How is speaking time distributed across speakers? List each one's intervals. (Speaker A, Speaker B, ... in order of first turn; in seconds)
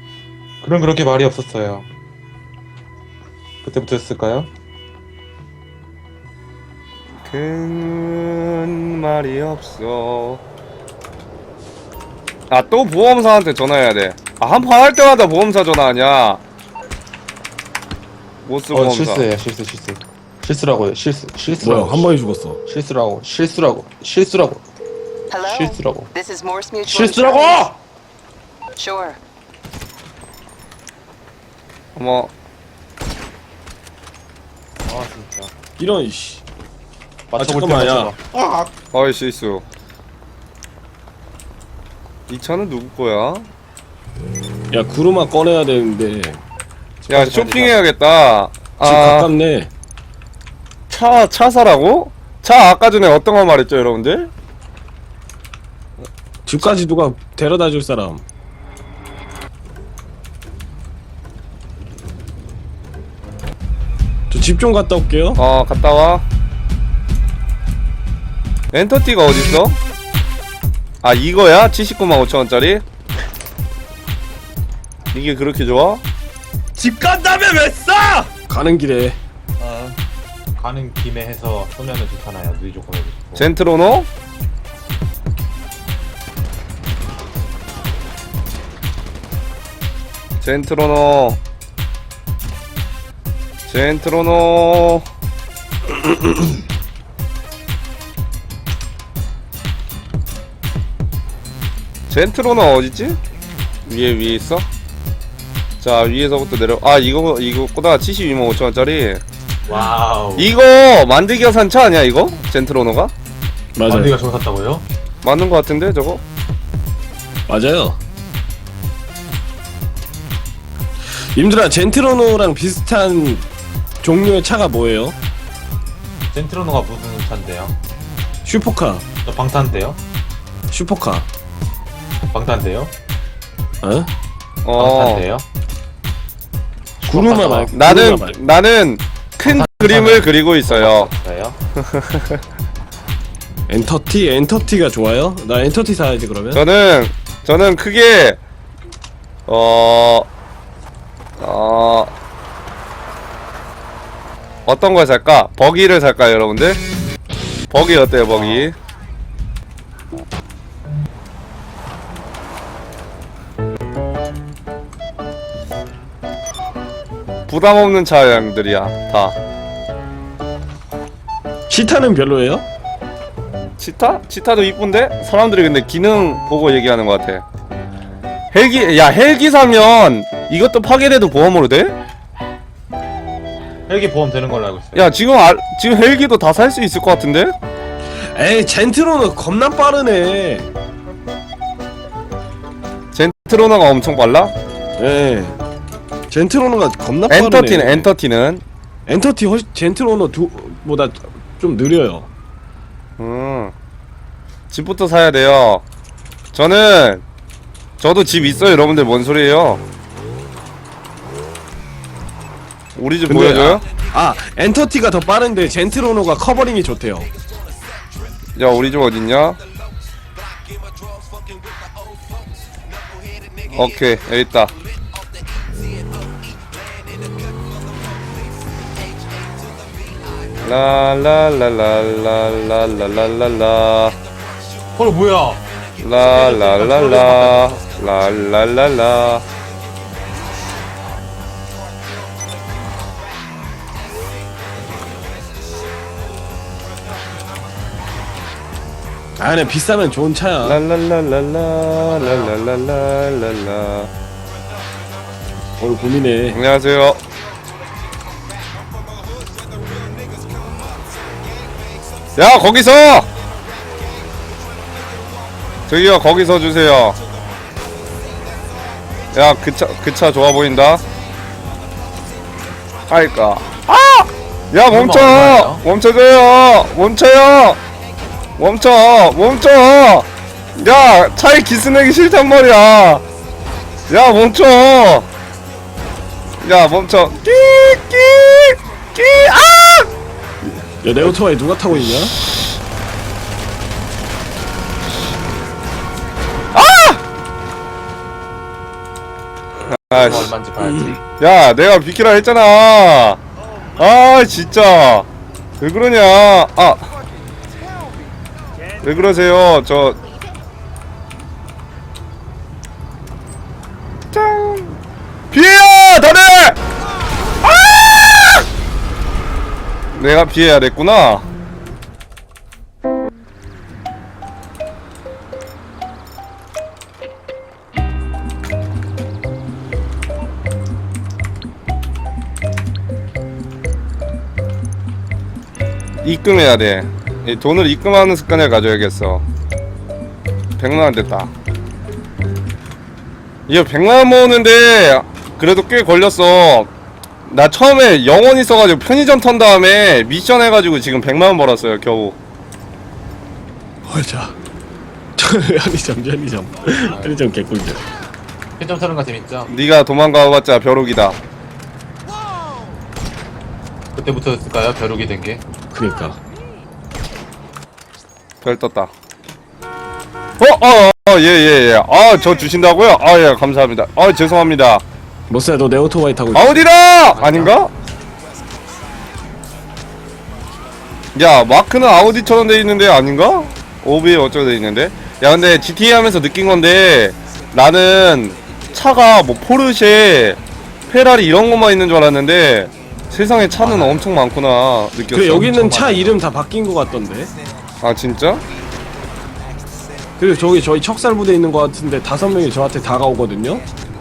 Speaker A: 0.6-1.9, 3.6-4.5, 18.7-22.1, 22.6-24.6, 25.4-26.1, 26.8-27.8, 34.9-35.5, 37.3-38.7, 47.0-47.8, 80.6-83.5, 109.7-110.5, 113.8-114.8, 126.3-127.8, 129.2-130.0, 132.2-132.9, 134.8-135.4, 137.0-137.7, 139.4-141.6, 158.3-158.7, 183.9-185.1, 234.9-235.6, 236.1-237.8, 252.1-252.5, 274.9-275.8, 300.1-301.2, 357.1-357.4, 358.8-359.7, 364.1-365.6, 377.3-377.7, 393.8-394.3
Speaker B: 7.2-10.4, 12.5-16.4, 18.4-19.3, 31.9-32.3, 38.9-39.6, 42.3-43.5, 47.1-49.3, 50.9-54.3, 65.3-66.2, 68.7-69.8, 71.0-72.8, 75.1-76.0, 83.3-84.1, 90.4-91.4, 93.7-95.0, 102.1-103.2, 103.9-104.7, 105.8-109.2, 110.4-113.1, 115.2-116.2, 134.6-135.2, 137.7-141.1, 141.8-142.4, 146.5-148.4, 149.5-150.3, 151.4-152.1, 154.7-156.8, 157.7-158.7, 167.5-169.3, 173.8-177.4, 178.5-182.0, 184.9-187.5, 193.1-194.5, 197.3-198.6, 203.2-203.7, 204.7-205.8, 206.5-207.2, 208.0-209.8, 212.9-213.8, 218.6-219.6, 223.7-224.7, 230.6-234.1, 236.0-239.4, 250.6-254.1, 256.5-257.2, 262.4-263.3, 265.9-267.2, 269.3-271.0, 273.1-277.8, 278.6-283.2, 284.1-285.3, 286.6-290.1, 292.1-292.7, 296.7-297.2, 299.9-300.5, 301.2-303.4, 304.0-305.3, 305.8-307.1, 309.0-310.2, 314.3-314.9, 315.5-316.8, 317.6-318.6, 320.1-321.5, 336.2-339.4, 340.8-341.5, 343.7-346.9, 347.4-352.4, 359.7-361.4, 368.6-369.1, 370.6-375.0, 376.5-377.9, 381.3-396.1, 398.0-398.6
Speaker C: 21.6-22.6, 35.8-36.4, 37.4-38.1, 44.7-46.4, 48.8-49.7, 56.5-58.2, 64.3-65.4, 78.5-79.2, 113.8-114.2, 117.5-118.0, 121.0-123.5, 124.0-125.2, 128.4-129.0, 130.7-131.3, 133.8-134.1, 137.0-138.4, 143.7-146.6, 171.7-172.6, 188.1-190.7, 195.0-195.6, 196.3-198.1, 199.1-202.3, 213.3-217.3, 249.4-250.8, 255.8-256.6, 290.6-292.4, 354.0-354.6, 355.4-358.0, 365.9-366.4, 375.5-376.9, 395.3-397.5, 400.4-403.8
Speaker D: 25.3-27.6, 28.8-29.2
Speaker E: 76.7-78.3, 79.6-80.0